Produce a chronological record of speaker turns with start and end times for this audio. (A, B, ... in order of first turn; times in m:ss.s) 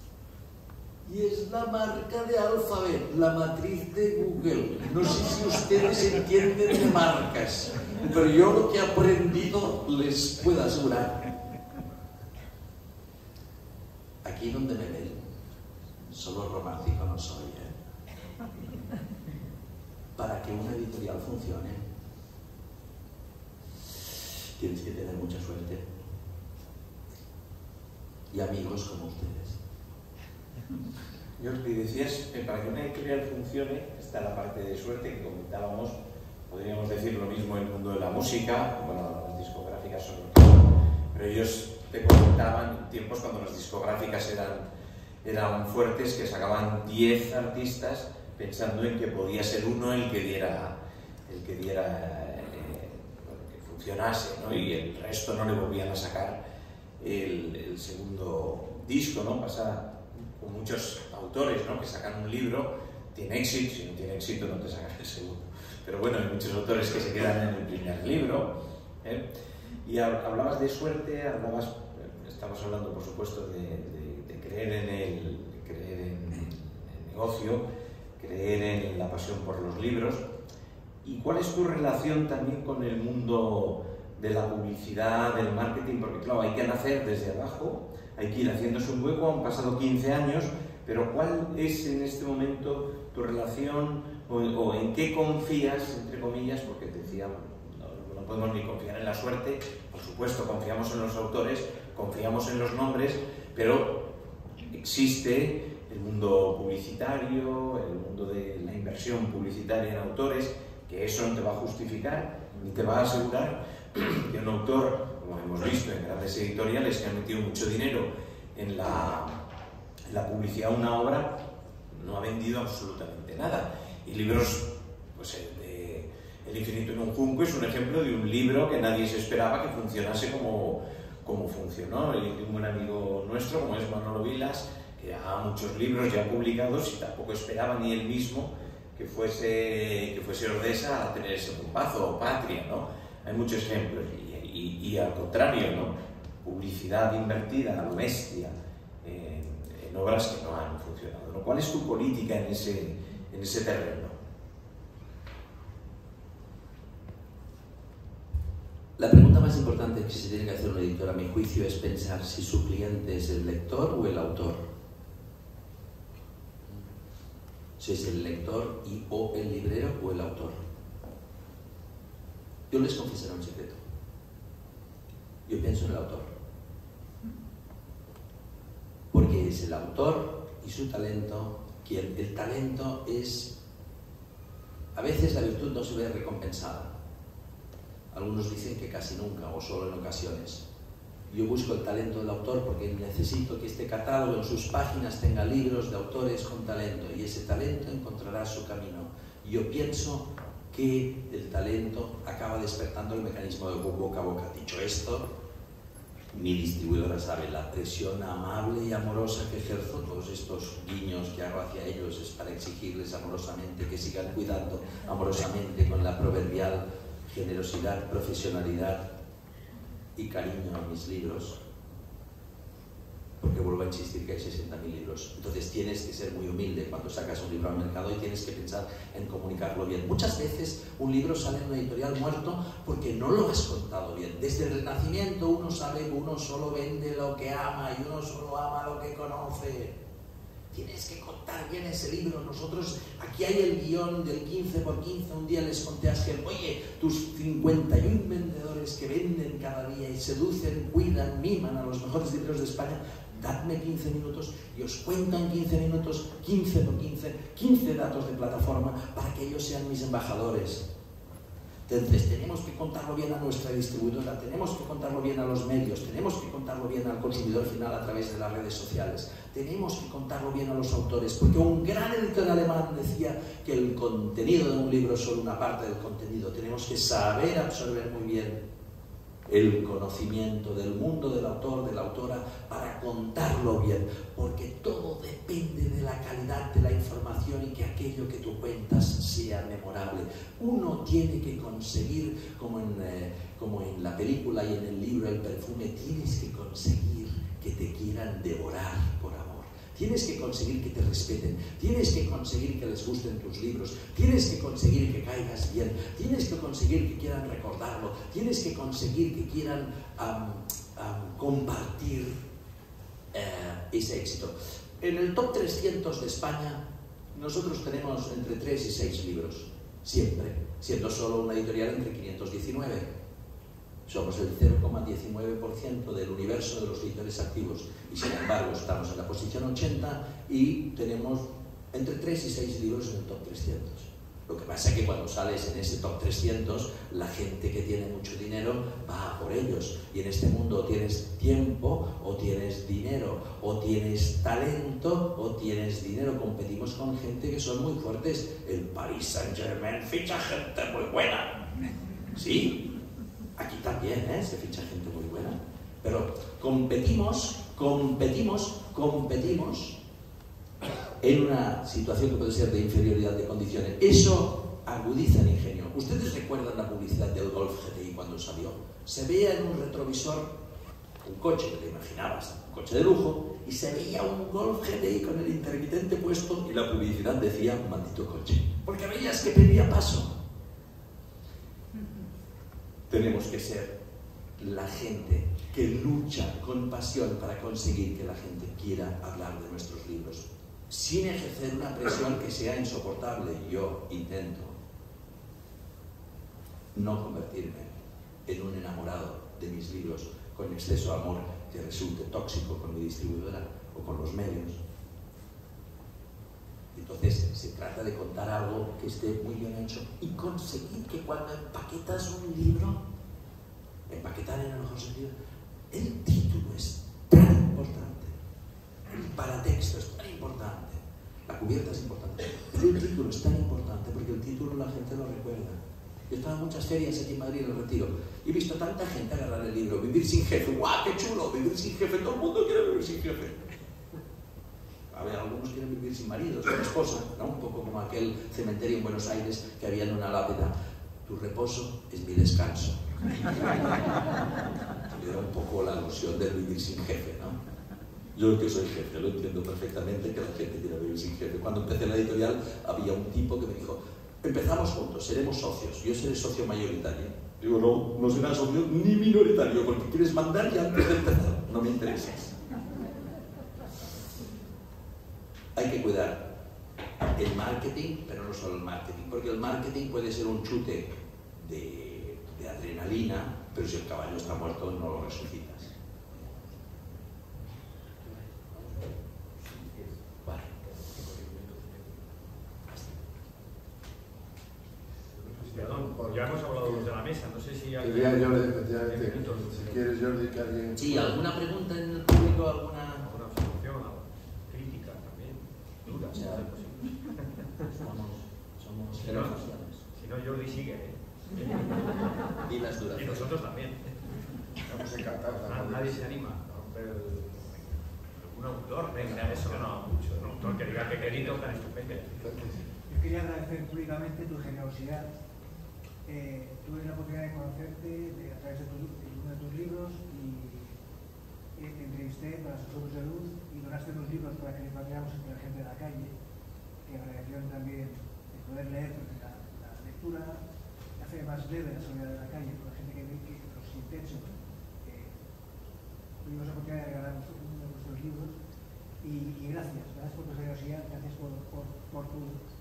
0:01.0-0:11.2 A
0:14.2-0:15.2 A
0:16.1-0:17.8 A
0:20.2-0:21.8 A
0:24.6-0:25.8 A
0:28.3-0:29.6 A
0:31.4-0:35.9 B
0:36.5-0:44.6 B
0:45.2-0:56.4 B
0:57.0-1:09.3 B
1:09.8-1:17.6 B
1:18.2-1:20.2 B
1:21.0-1:44.1 B
1:44.7-1:59.4 B
2:00.1-2:01.4 B
2:01.9-2:34.2 B
2:39.0-2:44.6 A
2:47.8-2:50.6 A
2:52.7-2:53.8 A
2:55.5-2:56.3 A
2:59.1-3:03.5 A
3:05.0-3:06.9 A
3:08.1-3:10.6 A
3:11.3-3:25.3 A
3:26.3-3:39.0 A
3:40.2-3:41.6 A
3:43.4-4:00.0 A
4:00.7-4:20.8 A
4:21.9-4:38.6 A
4:39.5-5:12.4 A
5:13.3-5:16.8 A
5:17.3-5:23.1 A
5:24.1-5:51.6 A
5:52.3-5:52.9 A
5:53.6-6:00.0 A
6:01.2-6:10.5 A
6:11.2-6:20.3 A
6:23.1-6:23.9 A
6:24.6-6:34.8 A
6:36.9-6:37.9 A
6:38.5-6:44.8 A
6:46.9-6:53.0 A
6:54.1-6:55.3 A
6:55.9-6:58.3 A
6:59.1-7:13.7 A
7:15.1-7:20.7 A
7:21.2-7:23.9 A
7:25.1-7:27.6 A
7:28.4-7:42.6 A
7:45.8-7:46.5 A
7:47.3-7:55.9 A
7:59.6-8:00.2 C
8:00.4-8:00.8 A
8:01.0-8:02.0 C
8:02.9-8:03.2 A
8:05.4-8:07.1 D
8:05.6-8:10.1 C
8:08.0-8:11.4 D
8:11.0-8:13.3 A
8:13.2-8:17.1 C
8:16.3-8:16.7 A
8:17.8-8:20.0 A
8:19.2-8:19.6 C
8:20.1-8:21.9 C
8:22.6-8:23.5 A
8:23.1-8:24.0 C
8:24.9-8:26.3 D
8:25.0-8:32.6 C
8:32.4-8:32.9 D
8:33.1-8:35.3 E
8:36.2-8:41.0 E
8:41.8-8:46.3 E
8:47.0-8:50.6 E
8:51.2-8:54.5 E
8:55.0-8:55.3 E
8:56.4-8:58.5 E
8:59.2-9:02.6 E